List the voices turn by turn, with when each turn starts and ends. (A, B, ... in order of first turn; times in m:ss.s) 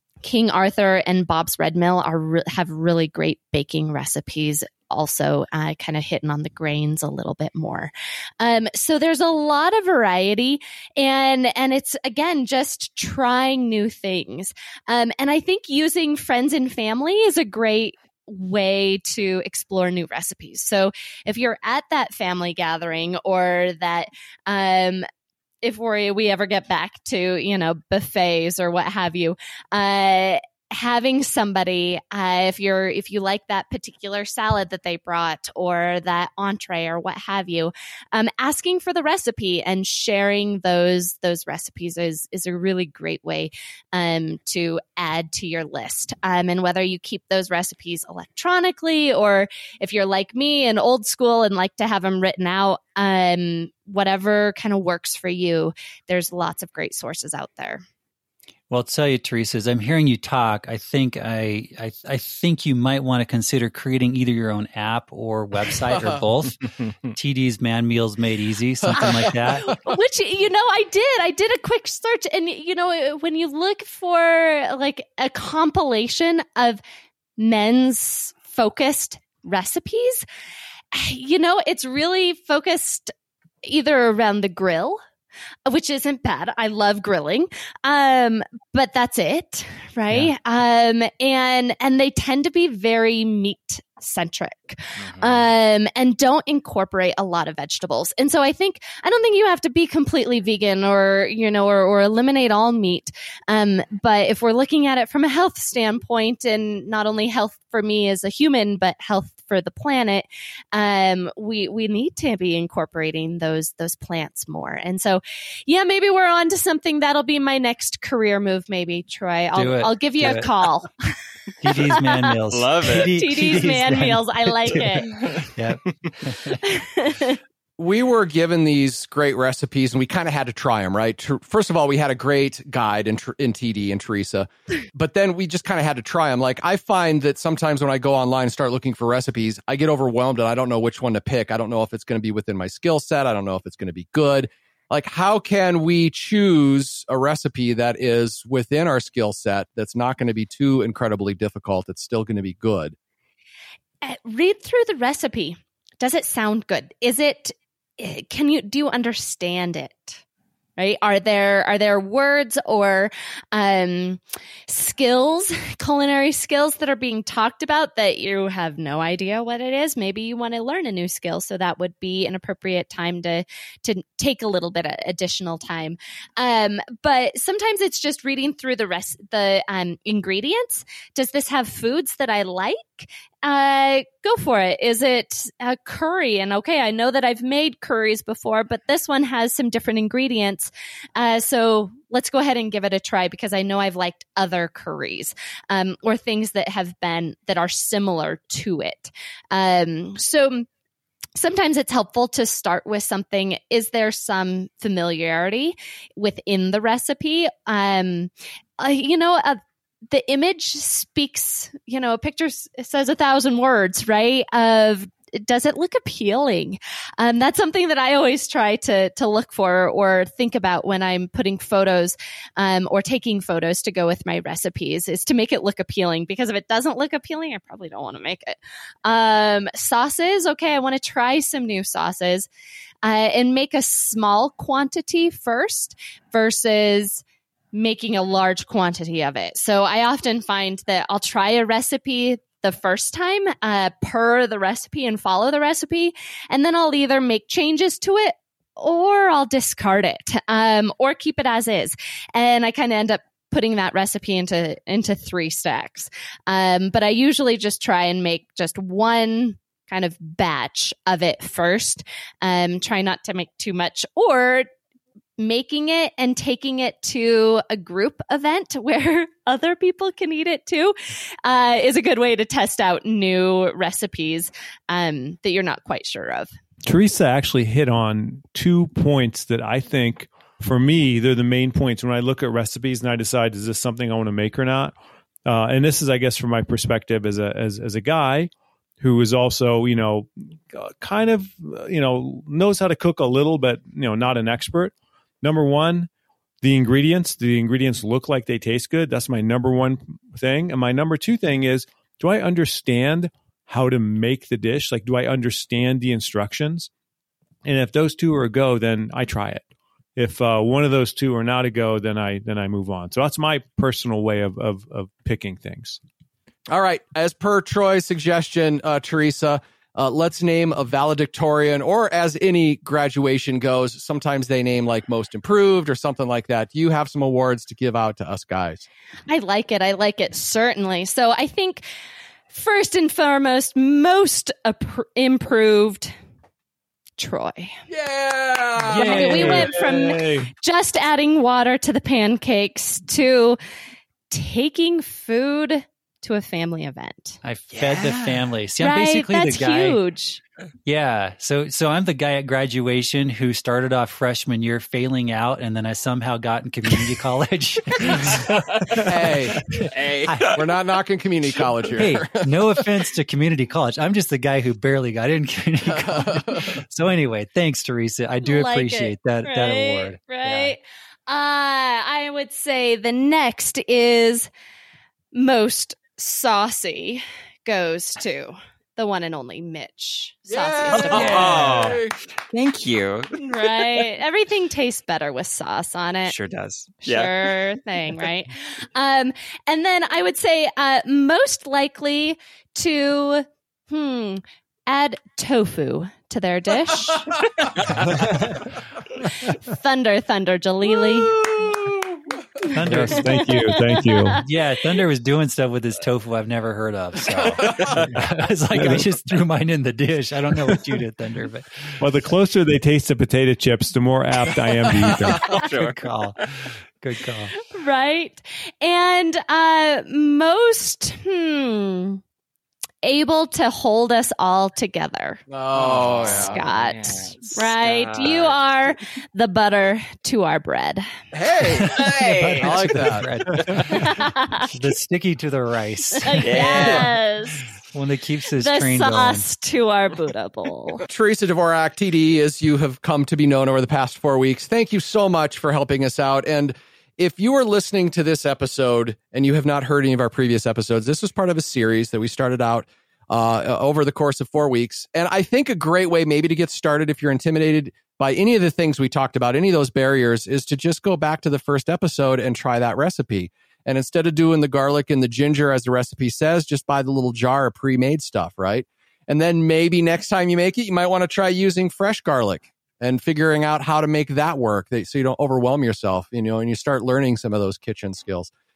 0:00.2-0:25.1 A
0:25.6-0:57.8 A
0:58.7-1:09.7 B
1:09.6-1:16.8 A
1:17.4-1:20.2 A
1:20.9-1:23.1 A
1:23.6-1:25.0 A
1:25.6-2:05.1 A
1:59.5-2:00.5 B
2:01.6-2:04.9 B
2:02.5-2:03.2 C
2:05.1-2:05.4 C
2:05.5-2:06.6 B
2:06.5-2:07.4 A
2:07.8-2:32.9 D
2:34.0-2:40.2 A
2:40.8-3:20.6 A
3:21.4-3:52.5 A
3:53.0-4:24.7 A
4:25.4-4:36.5 A
4:36.8-4:44.9 E
4:45.4-4:56.1 E
4:56.6-5:06.9 E
5:07.6-5:16.0 E
5:16.7-5:28.9 D
5:29.3-5:31.8 A
5:32.5-5:36.1 A
5:37.2-5:37.7 A
5:37.9-5:39.9 D
5:38.8-5:39.7 B
5:38.9-5:43.6 A
5:39.0-5:40.5 E
5:44.3-5:47.4 A
5:47.4-5:50.0 B
5:47.7-5:48.4 C
5:48.8-5:50.4 A
5:50.8-5:58.5 B
5:58.5-5:59.0 C
5:59.0-5:59.6 D
5:59.7-6:00.5 B
5:59.8-6:00.7 C
6:00.5-6:02.4 D
6:02.0-6:10.7 B
6:05.9-6:06.6 D
6:08.4-6:14.5 A
6:15.3-6:21.6 A
6:20.5-6:22.1 D
6:20.9-6:24.0 C
6:21.1-6:22.0 B
6:23.4-6:26.3 A
6:26.2-6:27.3 C
6:27.0-6:37.4 A
6:38.1-6:38.6 E
6:39.5-6:41.5 A
6:41.1-6:42.0 D
6:42.6-6:44.4 A
6:42.7-6:43.4 B
6:42.8-6:44.4 E
6:44.4-6:51.9 B
6:48.7-6:49.1 E
6:52.0-6:55.5 E
6:55.4-6:56.5 C
6:55.7-6:56.4 B
6:57.0-6:57.5 B
6:57.7-7:02.2 A
7:03.0-7:05.4 A
7:05.5-7:06.6 D
7:05.7-7:08.6 C
7:06.2-7:11.0 A
7:11.3-7:13.3 D
7:11.7-7:17.1 B
7:11.8-7:13.0 C
7:13.9-7:14.7 A
7:16.2-7:17.6 A
7:16.4-7:17.2 C
7:17.9-7:19.4 B
7:18.6-7:21.0 A
7:21.0-7:58.5 D